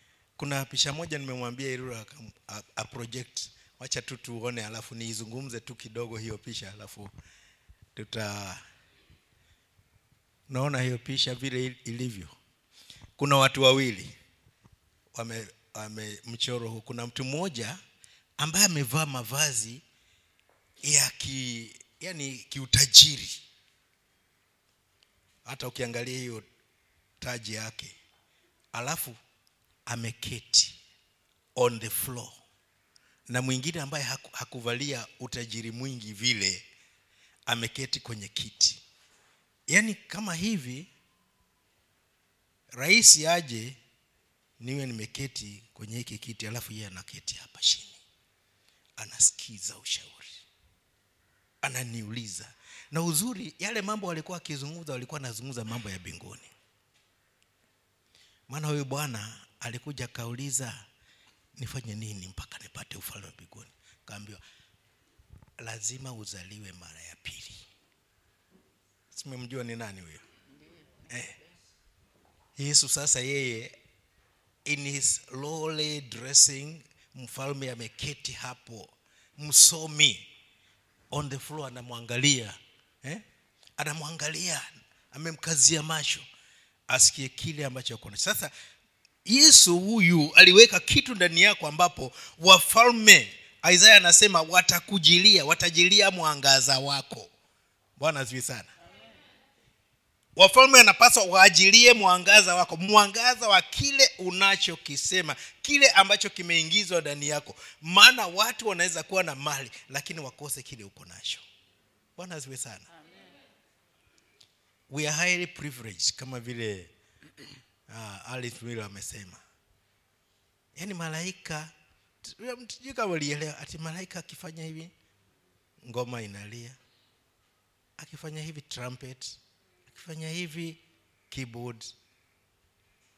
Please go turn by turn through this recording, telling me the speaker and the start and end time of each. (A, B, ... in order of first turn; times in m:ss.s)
0:00.4-0:07.1 A
0:08.0-0:08.6 A
0:10.5-0:12.3 A
0:13.2-0:14.2 A
0:15.1-0:17.8 A
0:18.4-0:19.8 A
0:20.8-0:23.4 A
0:25.4-0:26.4 A
0:27.2-0:27.9 A
0:28.7-0:29.2 A
0:29.9-0:30.8 A
0:31.6-0:32.3 A
0:33.3-0:36.6 A
0:37.5-0:38.8 A
0:39.7-0:40.9 A
0:42.7-0:43.8 A
0:44.6-0:48.0 A
0:49.0-0:50.4 A
0:51.6-0:56.5 A
0:58.5-1:00.8 A
1:01.6-1:04.4 A
1:05.6-1:07.6 A
1:09.1-1:10.2 A
1:11.1-1:11.3 A
1:12.6-1:13.7 A
1:14.6-1:20.3 A
1:21.1-1:23.2 A
1:23.8-1:26.2 A
1:26.9-1:28.5 A
1:29.2-1:37.3 A
1:38.0-1:38.7 A
1:40.4-1:51.4 A
1:52.2-1:52.9 A
1:54.9-1:56.9 A
1:57.9-1:59.4 A
2:00.8-2:01.7 A
2:02.2-2:04.9 A
2:05.8-2:06.8 A
2:08.0-2:09.4 A
2:09.9-2:10.8 A
2:11.3-2:11.9 A